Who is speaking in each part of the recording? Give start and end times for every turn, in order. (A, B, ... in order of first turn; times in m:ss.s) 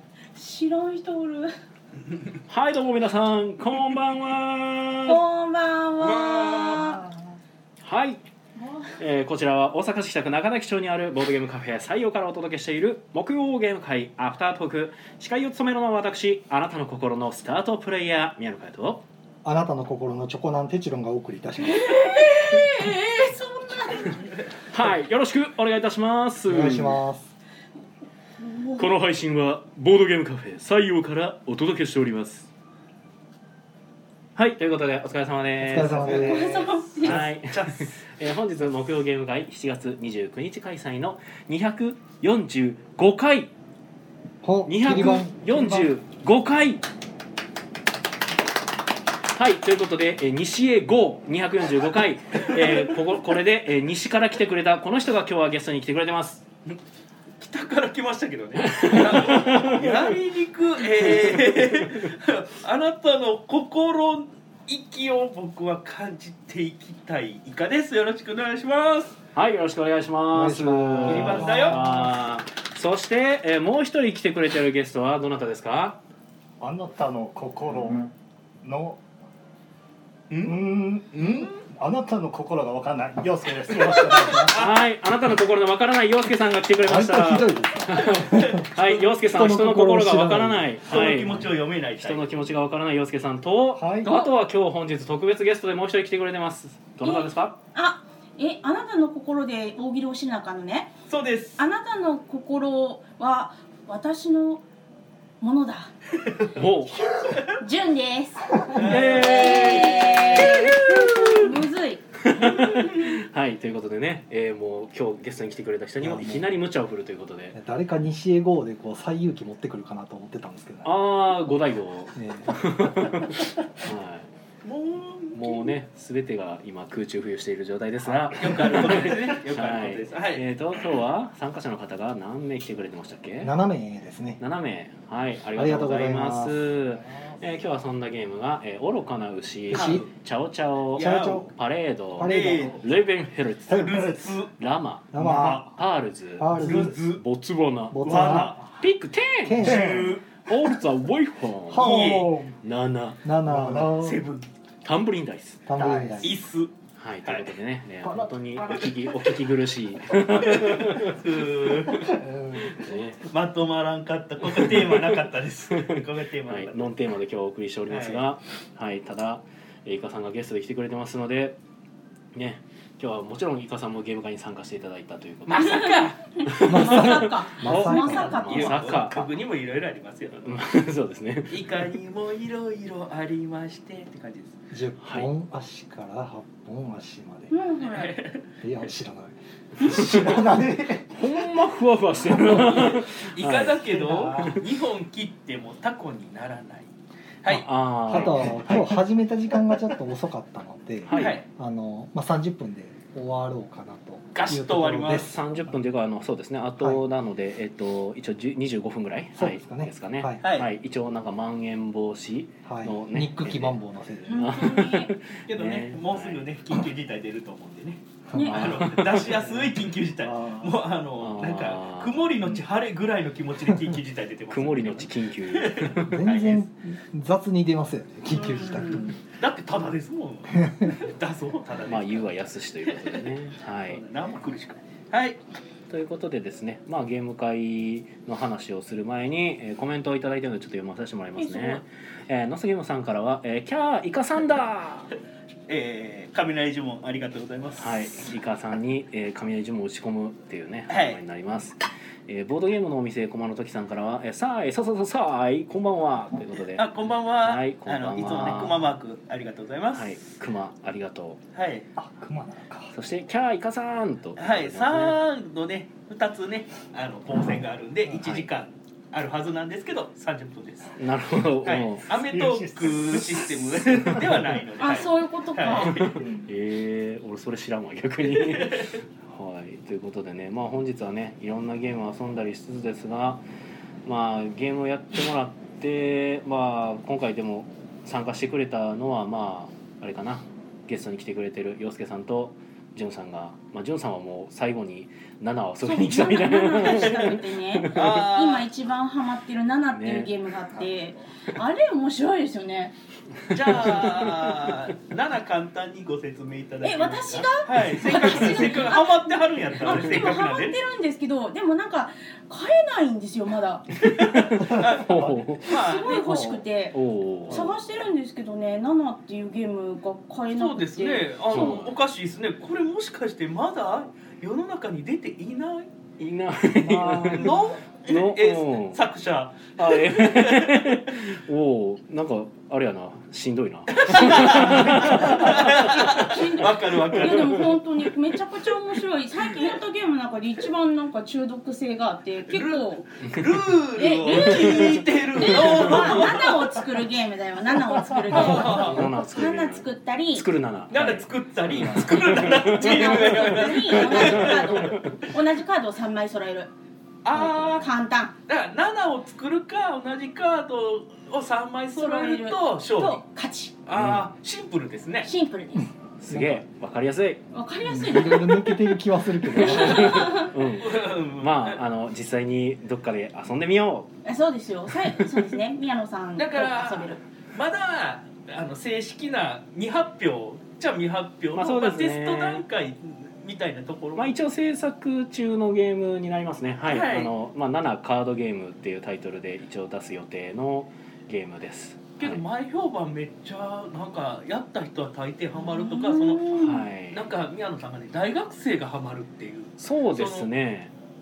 0:00.3-0:01.5 A
0:02.5-0:05.2 B
0:05.0-0:07.2 A
0:06.0-0:07.0 C
0:07.8-0:08.2 B
0:08.6-0:09.0 A
0:09.0-0:19.0 B
0:19.4-0:22.4 D
0:21.6-0:24.3 A
0:24.7-0:27.0 B
0:26.4-0:27.3 D
0:28.4-0:28.9 A
0:28.8-0:32.5 B
0:34.4-0:36.3 B
0:35.6-0:36.7 D
0:35.8-0:37.9 C
0:36.1-0:37.2 A
0:37.0-0:43.5 B
0:44.4-0:45.9 D
0:44.6-0:46.8 B
0:49.3-0:56.4 B
0:57.4-1:09.2 C
0:58.6-1:00.1 B
1:09.3-1:16.0 B
1:10.3-1:12.1 D
1:11.0-1:11.8 C
1:16.6-1:18.1 E
1:18.6-1:19.0 E
1:20.3-1:20.6 C
1:20.4-1:24.6 E
1:21.2-1:21.6 C
1:24.2-1:24.8 C
1:24.5-1:31.4 B
1:26.8-1:30.8 D
1:28.1-1:28.7 C
1:30.9-1:32.2 C
1:32.0-1:37.6 B
1:33.8-1:34.1 E
1:37.0-1:41.0 A
1:41.1-1:41.6 C
1:41.6-1:44.6 A
1:45.4-1:45.9 A
1:46.5-1:47.0 B
1:47.0-1:47.6 C
1:47.5-1:52.1 A
1:48.7-1:51.4 C
1:48.7-1:51.5 B
1:52.2-1:57.6 B
1:52.4-1:53.2 C
1:56.0-1:56.6 D
1:57.5-2:01.5 D
2:00.8-2:04.3 B
2:02.1-2:03.4 D
2:04.6-2:05.7 C
2:05.3-2:13.5 B
2:08.3-2:10.4 C
2:13.4-2:14.4 D
2:14.4-2:32.0 B
2:15.5-2:16.7 D
2:19.7-2:20.0 D
2:19.7-2:20.1 C
2:20.9-2:21.5 C
2:21.0-2:21.5 D
2:22.2-2:22.8 D
2:22.2-2:22.8 C
2:23.7-2:24.4 E
2:23.7-2:24.5 C
2:25.1-2:25.8 D
2:25.2-2:25.7 E
2:26.4-2:27.0 D
2:26.5-2:27.2 C
2:27.9-2:28.6 D
2:28.0-2:28.6 C
2:28.1-2:28.6 E
2:29.4-2:30.2 D
2:29.6-2:30.1 E
2:29.6-2:30.2 C
2:31.7-2:32.5 D
2:31.8-2:32.4 C
2:31.8-2:32.5 E
2:32.6-2:33.2 B
2:33.2-2:34.2 D
2:33.5-2:34.1 E
2:33.7-2:34.5 C
2:34.8-2:35.7 B
2:35.6-2:36.4 D
2:35.7-2:36.4 E
2:36.2-2:36.7 C
2:37.0-2:41.2 B
2:37.2-2:37.5 C
2:38.0-2:38.8 E
2:40.4-2:42.2 C
2:42.0-2:42.7 E
2:42.5-2:43.3 B
2:43.2-2:46.9 C
2:44.5-2:51.6 B
2:47.9-2:48.2 C
2:52.3-2:59.3 B
2:55.5-2:56.1 C
2:55.5-2:58.9 A
2:56.6-2:58.4 D
2:58.4-3:00.6 C
3:00.4-3:01.9 B
3:01.5-3:04.6 C
3:04.7-3:07.5 D
3:05.0-3:05.3 B
3:07.5-3:08.1 A
3:07.8-3:08.4 C
3:08.6-3:11.0 D
3:09.8-3:10.4 B
3:10.1-3:11.1 E
3:11.1-3:13.8 B
3:12.2-3:16.9 C
3:13.9-3:14.6 E
3:17.4-3:17.7 C
3:17.5-3:19.0 B
3:18.1-3:25.4 D
3:21.0-3:21.4 B
3:21.1-3:21.4 C
3:24.3-3:25.3 C
3:25.0-3:33.8 B
3:29.4-3:30.4 D
3:30.4-3:30.7 C
3:32.6-3:34.6 D
3:34.2-3:35.1 A
3:34.3-3:36.5 B
3:35.5-3:46.6 C
3:38.3-3:38.6 D
3:38.3-3:38.7 A
3:38.4-3:39.6 B
3:41.2-3:42.6 B
3:44.5-3:46.3 B
3:46.1-3:49.2 D
3:48.3-3:49.1 A
3:49.4-3:52.3 C
3:50.6-3:50.9 D
3:51.9-3:54.0 B
3:52.8-3:53.3 C
3:53.8-3:55.4 C
3:55.9-4:05.1 B
4:01.4-4:01.8 A
4:05.7-4:08.1 C
4:07.8-4:16.9 B
4:10.9-4:11.2 C
4:16.7-4:20.1 C
4:17.4-4:18.8 B
4:19.9-4:21.4 B
4:21.5-4:21.9 C
4:22.0-4:22.9 E
4:22.9-4:25.2 B
4:24.4-4:31.0 C
4:28.2-4:28.5 B
4:31.0-4:32.1 B
4:31.6-4:36.2 C
4:32.3-4:33.5 E
4:33.8-4:34.6 B
4:34.8-4:36.1 A
4:35.8-4:43.4 B
4:36.1-4:36.5 E
4:38.3-4:38.9 C
4:44.0-4:58.2 B
4:55.8-5:02.9 A
4:56.8-4:57.3 C
4:57.9-4:58.6 C
4:59.9-5:00.3 B
5:03.4-5:04.8 B
5:03.5-5:10.8 C
5:06.8-5:14.0 A
5:07.9-5:08.8 B
5:09.9-5:10.3 B
5:14.0-5:16.4 C
5:14.0-5:15.8 B
5:14.5-5:15.5 E
5:15.7-5:21.8 A
5:16.9-5:17.8 B
5:20.6-5:25.9 C
5:21.5-5:22.0 B
5:26.2-5:29.1 B
5:26.9-5:31.1 C
5:27.2-5:27.6 A
5:29.8-5:37.8 B
5:33.9-5:37.8 C
5:34.6-5:43.2 A
5:42.5-5:46.8 C
5:44.0-5:50.4 A
5:44.3-5:46.3 B
5:48.3-5:49.0 C
5:48.3-5:55.2 B
5:50.9-5:55.1 C
5:52.3-5:56.7 A
5:57.2-5:57.8 C
5:57.3-5:57.9 B
5:57.5-5:58.4 A
5:58.5-6:03.2 C
6:02.0-6:03.8 A
6:03.8-6:05.3 C
6:03.9-6:04.3 B
6:05.2-6:05.9 A
6:05.7-6:06.6 D
6:06.2-6:07.4 B
6:07.5-6:10.5 A
6:07.8-6:10.4 D
6:09.6-6:14.1 B
6:10.8-6:11.8 C
6:14.2-6:17.2 A
6:15.2-6:15.5 B
6:16.4-6:24.3 C
6:21.5-6:22.6 B
6:24.1-6:32.4 B
6:26.8-6:27.3 C
6:32.2-6:40.5 C
6:35.5-6:36.5 A
6:36.5-6:37.2 B
6:39.8-6:40.9 B